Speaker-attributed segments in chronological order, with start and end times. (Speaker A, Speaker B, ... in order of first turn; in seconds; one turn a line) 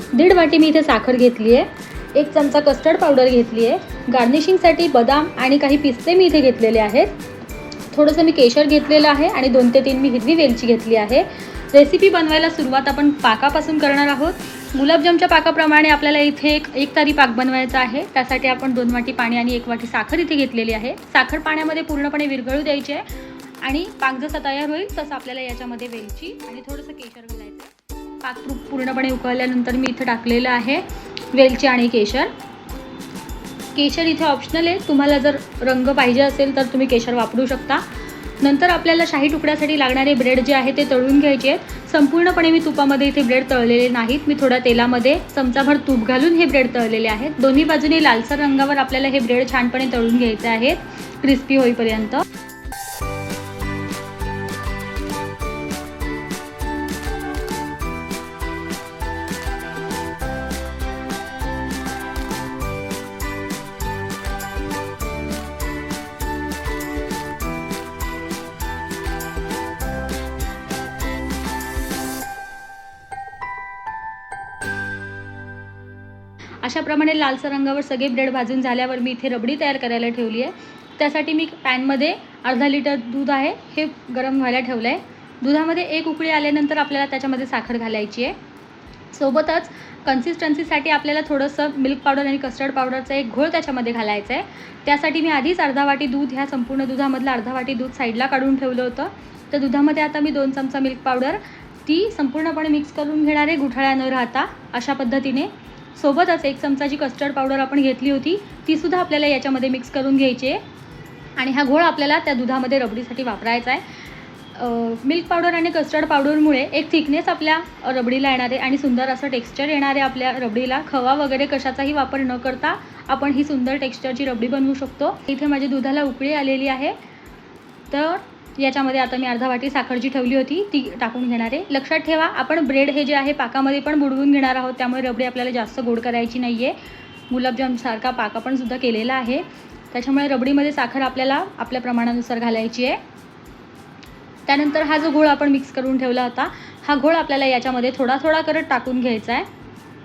Speaker A: 0.1-7.2
Speaker A: 7.9-23.1
Speaker A: 23.6-32.3
Speaker A: 33.7-37.8
Speaker A: 38.4-52.2
Speaker A: 76.6-88.3
Speaker A: 89.1-110.6
Speaker A: 111.4-113.8
Speaker A: 114.5-127.0
Speaker A: 127.9-136.8
Speaker A: 137.3-143.0
Speaker A: 144.5-149.5